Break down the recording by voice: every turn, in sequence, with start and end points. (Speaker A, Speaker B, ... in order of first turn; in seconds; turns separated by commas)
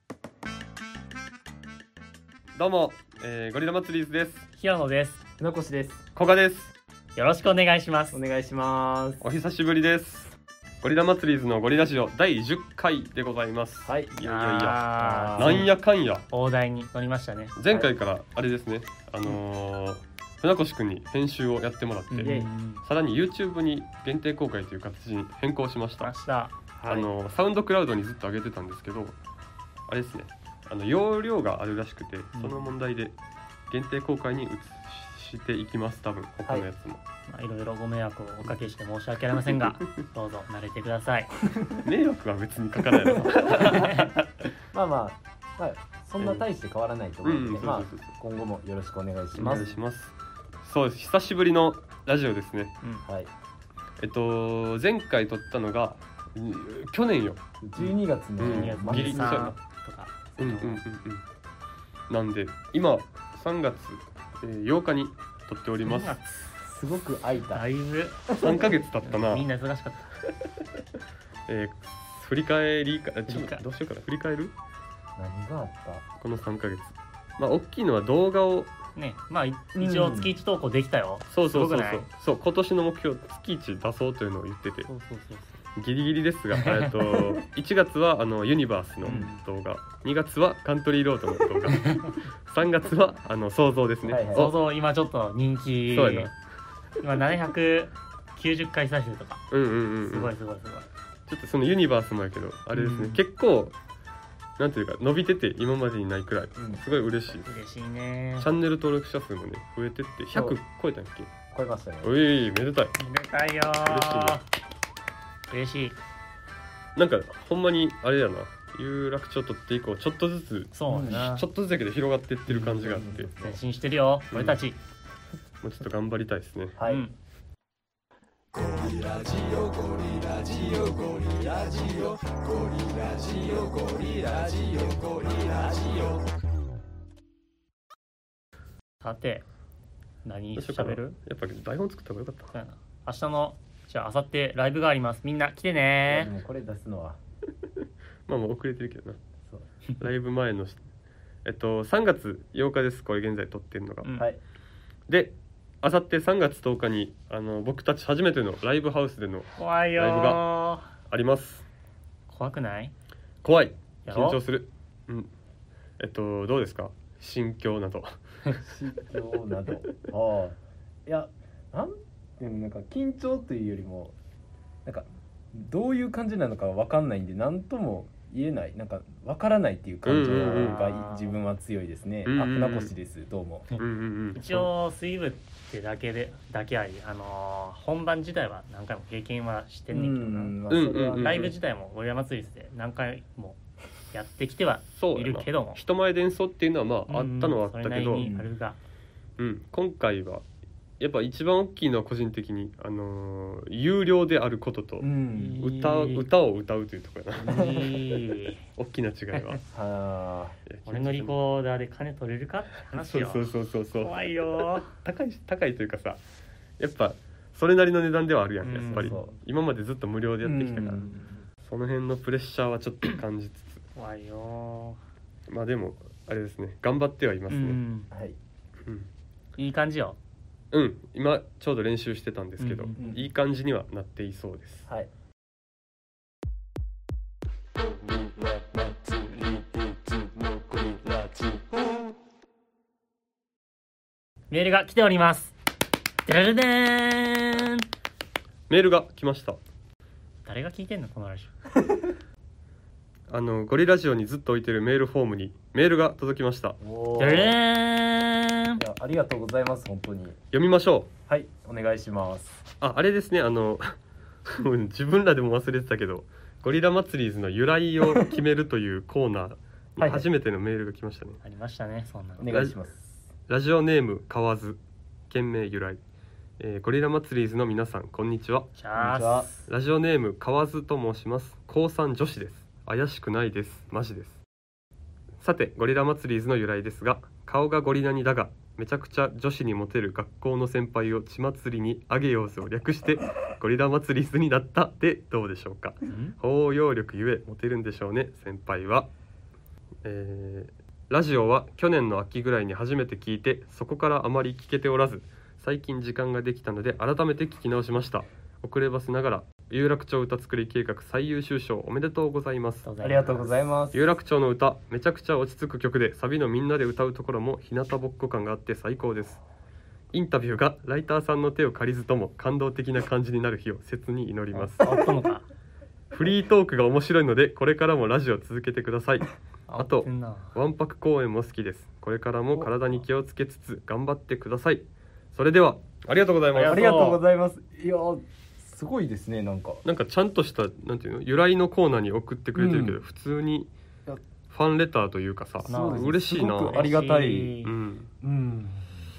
Speaker A: 2.5-4.5, Speaker B: 4.5-5.2, Speaker C: 5.4-6.0, Speaker A: 6.1-6.7, Speaker B: 7.2-8.2, Speaker C: 8.1-9.2, Speaker A: 9.2-16.2, Speaker C: 13.8-14.1, Speaker B: 14.2-15.7, Speaker C: 15.0-15.7, Speaker B: 16.3-17.5, Speaker A: 17.6-26.1, Speaker C: 17.7-17.9, Speaker B: 22.1-22.8, Speaker C: 22.2-22.5, Speaker B: 26.0-27.1, Speaker A: 26.8-29.1, Speaker A: 29.9-33.1, Speaker B: 32.3-32.7, Speaker A: 33.7-37.0, Speaker B: 37.3-41.4, Speaker A: 41.8-44.0, Speaker B: 43.5-44.2, Speaker C: 44.7-49.7, Speaker A: 46.2-46.5, Speaker A: 47.2-48.1, Speaker A: 49.3-52.7, Speaker B: 52.8-53.1, Speaker A: 54.0-59.5, Speaker C: 57.6-59.5, Speaker B: 58.4-60.8, Speaker A: 60.4-61.2, Speaker A: 62.1-66.2, Speaker B: 65.8-66.3, Speaker C: 66.6-67.6, Speaker B: 67.4-68.2, Speaker C: 68.3-68.7, Speaker A: 68.4-69.5, Speaker B: 69.0-70.2, Speaker A: 71.5-74.5, Speaker B: 73.3-73.6, Speaker C: 75.2-76.0, Speaker A: 76.2-78.7, Speaker B: 79.0-82.1, Speaker C: 79.7-80.3, Speaker A: 81.3-84.9, Speaker B: 84.8-85.6, Speaker A: 85.8-91.9, Speaker B: 86.5-86.9, Speaker C: 89.0-89.3, Speaker B: 89.0-89.4, Speaker B: 91.7-92.1, Speaker A: 92.5-94.5, Speaker C: 94.1-94.5, Speaker B: 94.2-96.3, Speaker A: 95.9-96.3, Speaker B: 97.0-99.4, Speaker A: 99.5-100.3, Speaker B: 100.0-100.9, Speaker A: 101.3-103.7, Speaker B: 102.7-103.2, Speaker A: 104.6-107.5, Speaker B: 107.4-108.5, Speaker A: 108.4-111.3, Speaker C: 110.3-110.6, Speaker C: 111.5-112.1, Speaker A: 112.0-113.0, Speaker B: 113.0-114.5, Speaker A: 113.8-114.4, Speaker B: 115.5-116.0, Speaker A: 117.0-123.3, Speaker B: 120.7-121.5, Speaker C: 120.9-121.2, Speaker B: 122.5-122.8, Speaker C: 122.7-123.6, Speaker B: 123.4-124.8, Speaker A: 124.3-124.6, Speaker A: 125.6-126.8, Speaker C: 126.8-127.1, Speaker B: 126.8-127.1, Speaker C: 128.8-129.2, Speaker C: 130.4-130.9, Speaker C: 131.6-132.0, Speaker C: 133.2-133.7, Speaker B: 139.0-139.4, Speaker B: 140.2-141.2, Speaker A: 140.5-142.5, Speaker B: 142.5-146.3, Speaker C: 146.1-147.2, Speaker A: 148.3-149.2, Speaker A: 150.0-150.8, Speaker A: 151.4-154.1, Speaker B: 154.0-154.3, Speaker A: 155.1-160.4, Speaker B: 159.6-160.9, Speaker A: 161.1-161.6, Speaker B: 162.3-162.9, Speaker A: 163.4-165.3, Speaker B: 164.1-164.4, Speaker A: 166.0-168.1, Speaker C: 168.6-174.2, Speaker C: 174.8-183.7, Speaker A: 180.0-180.8, Speaker B: 180.5-181.4, Speaker A: 182.2-182.9, Speaker A: 183.8-184.7, Speaker B: 184.3-190.6, Speaker C: 189.9-191.4, Speaker A: 190.7-191.5, Speaker B: 191.1-193.6, Speaker B: 194.1-195.8, Speaker A: 194.9-198.3, Speaker B: 197.1-198.8, Speaker C: 198.2-198.5, Speaker A: 199.4-200.4, Speaker A: 201.0-207.6, Speaker C: 205.0-205.6, Speaker B: 205.3-206.2, Speaker B: 207.4-208.6, Speaker C: 207.4-208.1, Speaker A: 208.8-209.6, Speaker C: 209.7-210.6, Speaker A: 210.7-211.4, Speaker B: 210.8-214.9, Speaker A: 212.9-216.2, Speaker A: 216.8-223.8, Speaker B: 218.6-219.3, Speaker C: 218.9-219.3, Speaker C: 220.4-221.4, Speaker B: 223.9-225.0, Speaker A: 225.5-227.8, Speaker B: 227.5-228.1, Speaker C: 228.1-228.4, Speaker B: 229.6-230.2, Speaker A: 230.7-234.9, Speaker B: 232.6-233.0, Speaker C: 233.0-233.3, Speaker B: 244.5-245.5, Speaker B: 246.2-247.8, Speaker A: 248.7-249.6, Speaker B: 250.4-251.5, Speaker A: 253.3-256.8, Speaker C: 256.8-257.6, Speaker B: 257.2-258.8, Speaker C: 258.8-260.4, Speaker A: 260.5-261.1, Speaker C: 261.3-262.6, Speaker A: 262.8-263.9, Speaker A: 264.5-271.4, Speaker C: 270.0-270.3, Speaker B: 271.4-272.5, Speaker C: 272.4-273.3, Speaker A: 272.5-272.8, Speaker A: 273.5-274.8, Speaker A: 275.3-276.0, Speaker A: 276.6-278.7, Speaker B: 278.8-279.7, Speaker C: 278.9-279.5, Speaker A: 279.7-284.4, Speaker A: 285.4-299.1, Speaker B: 296.1-296.3, Speaker A: 300.0-312.9, Speaker B: 312.8-313.5, Speaker C: 313.0-314.1, Speaker A: 313.9-319.4, Speaker A: 320.1-324.9, Speaker B: 324.6-325.4, Speaker A: 326.1-336.9, Speaker B: 329.7-330.6, Speaker B: 336.5-337.2, Speaker C: 336.7-339.8, Speaker A: 339.8-343.7, Speaker C: 342.5-343.0, Speaker A: 344.5-346.8, Speaker C: 345.6-347.6, Speaker B: 345.6-347.7, Speaker A: 347.6-348.1, Speaker C: 348.2-349.0